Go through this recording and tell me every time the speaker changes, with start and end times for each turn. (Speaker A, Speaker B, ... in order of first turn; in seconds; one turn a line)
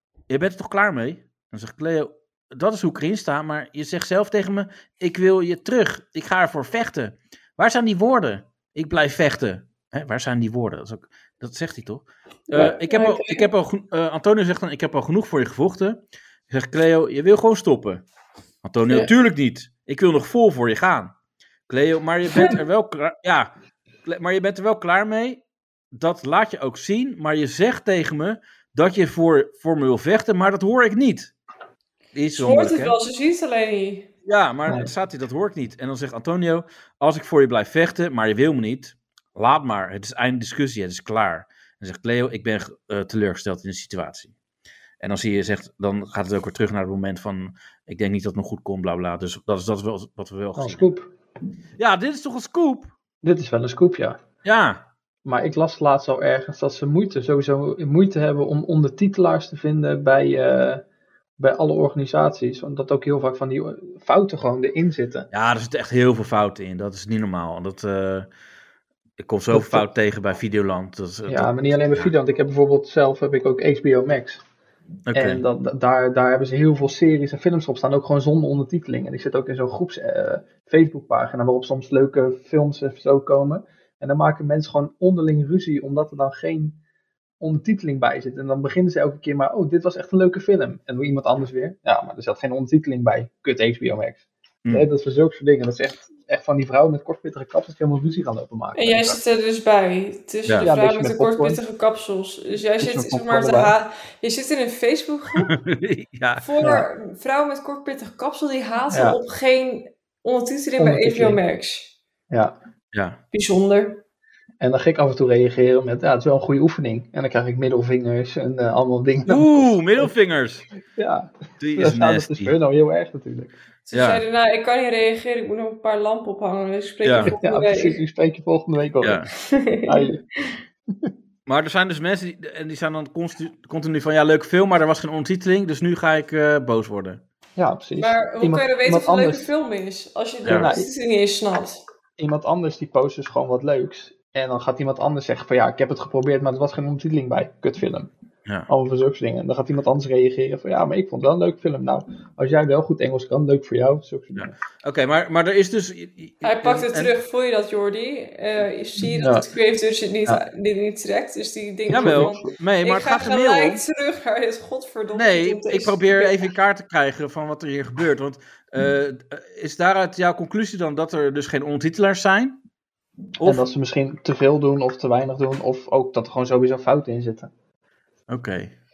Speaker A: 0.3-18.1
Speaker B: 12.5-13.5
Speaker A: 18.6-21.1
Speaker A: 21.7-23.5
Speaker A: 24.1-25.4
Speaker A: 25.9-31.3
Speaker A: 32.1-33.0
Speaker B: 32.3-34.1
Speaker A: 34.3-44.3
Speaker A: 45.0-50.9
Speaker C: 50.6-51.1
Speaker A: 51.8-52.9
Speaker C: 53.2-54.2
Speaker A: 54.4-54.9
Speaker C: 55.2-60.8
Speaker C: 61.4-65.3
Speaker A: 65.3-68.3
Speaker A: 69.2-72.1
Speaker C: 69.5-69.9
Speaker C: 71.3-74.4
Speaker A: 75.1-75.4
Speaker C: 75.1-86.8
Speaker C: 87.4-99.2
Speaker B: 98.8-105.5
Speaker C: 100.6-101.6
Speaker C: 102.8-103.8
Speaker A: 105.4-106.5
Speaker B: 106.4-111.9
Speaker C: 106.6-106.9
Speaker C: 108.9-109.2
Speaker C: 110.8-111.4
Speaker A: 112.9-113.2
Speaker B: 113.3-114.0
Speaker C: 114.6-120.1
Speaker A: 119.3-120.7
Speaker C: 121.0-123.5
Speaker A: 121.6-122.5
Speaker B: 123.9-128.0
Speaker A: 123.9-124.2
Speaker A: 127.0-127.3
Speaker C: 127.2-129.3
Speaker A: 129.0-129.3
Speaker B: 129.4-130.1
Speaker C: 129.9-130.2
Speaker A: 131.5-137.2
Speaker C: 137.6-139.5
Speaker B: 138.0-141.8
Speaker C: 140.5-140.9
Speaker C: 142.2-148.1
Speaker C: 148.7-154.5
Speaker A: 154.4-157.2
Speaker B: 156.4-166.5
Speaker C: 159.1-159.5
Speaker A: 161.9-163.8
Speaker C: 161.9-162.4
Speaker A: 165.1-172.6
Speaker C: 173.4-177.5
Speaker A: 178.3-178.8